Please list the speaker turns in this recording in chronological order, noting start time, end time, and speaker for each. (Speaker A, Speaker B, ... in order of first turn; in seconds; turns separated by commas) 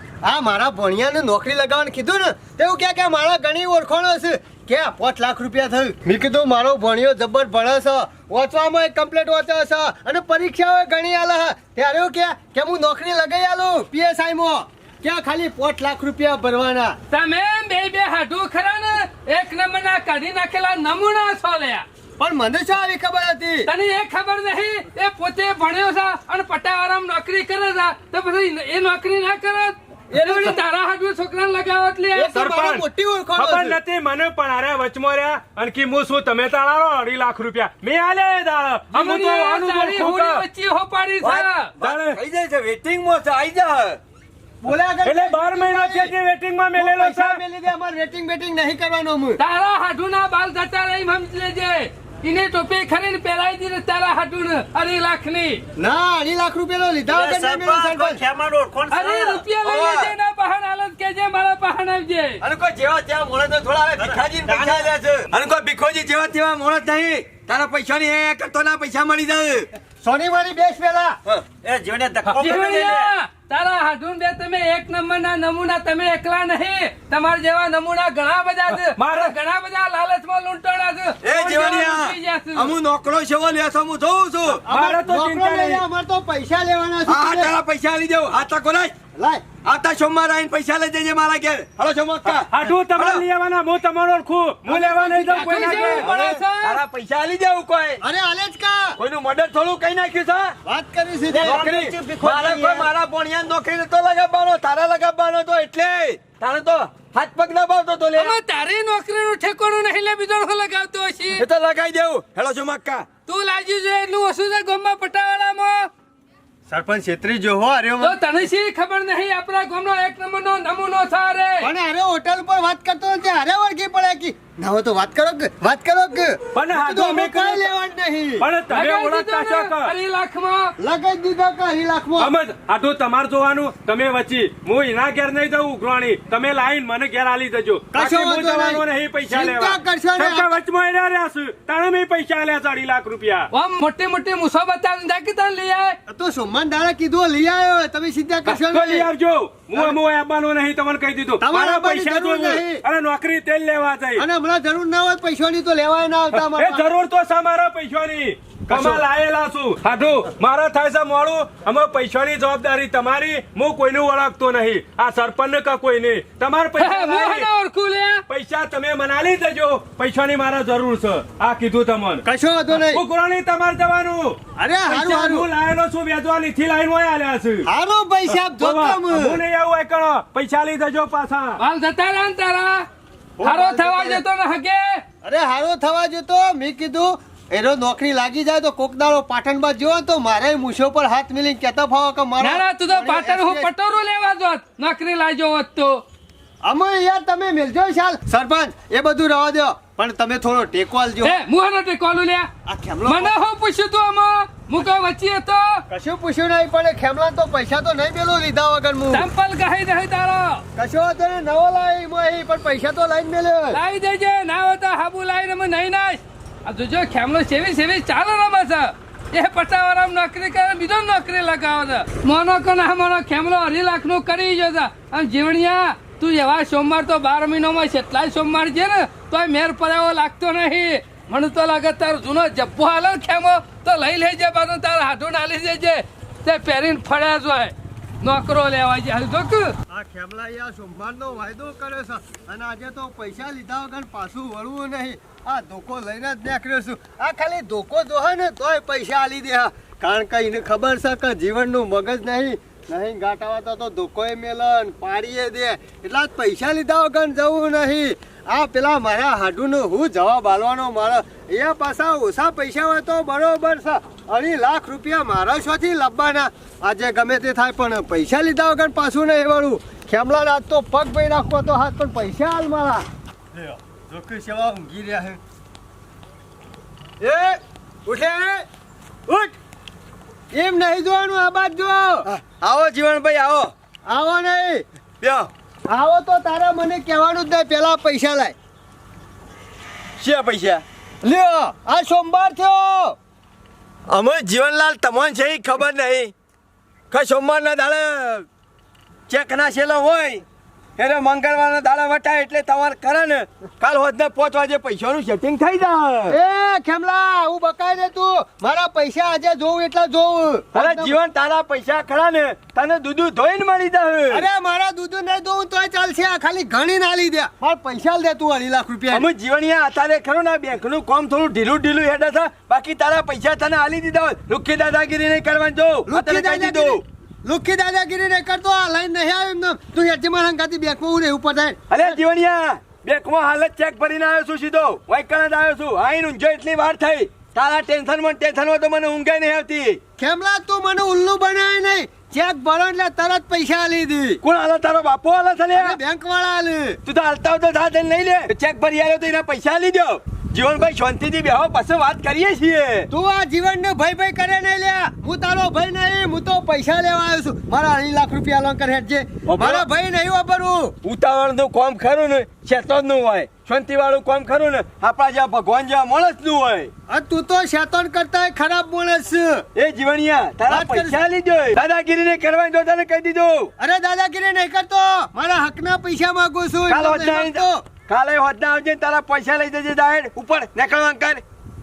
Speaker A: 0.2-17.0, Speaker B: 17.1-21.8, Speaker A: 22.2-23.7, Speaker B: 23.6-32.5, Speaker A: 30.1-30.6, Speaker A: 32.1-33.8, Speaker C: 32.3-40.4, Speaker B: 38.9-41.7, Speaker D: 41.2-44.0, Speaker C: 41.8-42.2, Speaker A: 44.6-46.1, Speaker C: 45.0-47.4, Speaker A: 46.8-49.4, Speaker B: 49.4-55.6, Speaker A: 55.8-58.2, Speaker E: 57.1-59.4, Speaker B: 58.9-62.4, Speaker D: 59.6-60.1, Speaker D: 62.4-69.7, Speaker E: 64.0-64.9, Speaker A: 70.0-71.2, Speaker E: 71.6-73.1, Speaker C: 72.2-72.7, Speaker B: 72.4-82.7, Speaker C: 78.8-79.3, Speaker D: 81.2-84.6, Speaker A: 84.6-87.5, Speaker C: 84.7-85.8, Speaker D: 87.0-88.9, Speaker A: 89.1-89.5, Speaker D: 89.6-93.2, Speaker C: 92.5-96.1, Speaker A: 94.7-96.0, Speaker B: 95.3-96.8, Speaker D: 95.8-98.0, Speaker A: 98.0-99.0, Speaker D: 99.0-100.5, Speaker A: 100.6-101.6, Speaker E: 101.3-102.9, Speaker D: 101.4-108.4, Speaker B: 108.2-111.5, Speaker D: 111.4-113.0, Speaker B: 113.3-115.9, Speaker A: 116.7-118.2, Speaker B: 118.0-121.7, Speaker A: 121.6-128.5, Speaker C: 126.5-127.7, Speaker C: 128.4-129.9, Speaker B: 128.7-130.7, Speaker A: 130.8-132.3, Speaker C: 132.2-143.5, Speaker A: 137.9-140.6, Speaker B: 143.5-146.0, Speaker A: 146.1-149.1, Speaker C: 148.4-154.2, Speaker A: 151.4-152.8, Speaker A: 154.2-156.9, Speaker C: 156.3-167.5, Speaker A: 158.7-159.0, Speaker B: 166.8-168.2, Speaker C: 168.3-177.7, Speaker A: 172.2-173.0, Speaker A: 174.6-175.5, Speaker A: 177.6-179.4, Speaker C: 178.3-181.6, Speaker B: 181.6-182.8, Speaker A: 183.4-184.2, Speaker B: 183.4-185.0, Speaker A: 185.2-193.7, Speaker B: 192.4-196.0, Speaker A: 196.6-201.4, Speaker B: 201.2-202.5, Speaker A: 202.7-203.3, Speaker B: 203.1-205.8, Speaker A: 205.9-209.3, Speaker B: 209.1-210.6, Speaker A: 210.8-213.8, Speaker B: 213.7-239.7, Speaker A: 239.9-275.4, Speaker A: 277.2-278.6, Speaker A: 279.3-279.5, Speaker A: 280.5-282.3, Speaker D: 282.2-283.7, Speaker A: 284.1-284.8, Speaker D: 285.2-285.5, Speaker A: 285.9-288.5, Speaker D: 290.2-290.8, Speaker A: 291.2-293.2, Speaker D: 294.1-296.3, Speaker D: 297.1-298.4, Speaker D: 299.3-300.4, Speaker D: 301.0-306.4, Speaker A: 306.3-311.1, Speaker D: 310.7-314.5, Speaker A: 314.3-319.3, Speaker D: 319.1-327.0, Speaker A: 326.1-332.2, Speaker D: 331.9-340.0, Speaker A: 340.2-344.4, Speaker D: 344.4-346.0, Speaker A: 345.7-347.0, Speaker D: 347.0-353.1, Speaker A: 353.1-360.9, Speaker D: 359.4-359.8, Speaker D: 361.0-366.9, Speaker A: 367.1-369.6, Speaker D: 369.8-373.7, Speaker A: 370.6-371.2, Speaker A: 373.8-377.9, Speaker D: 376.9-381.4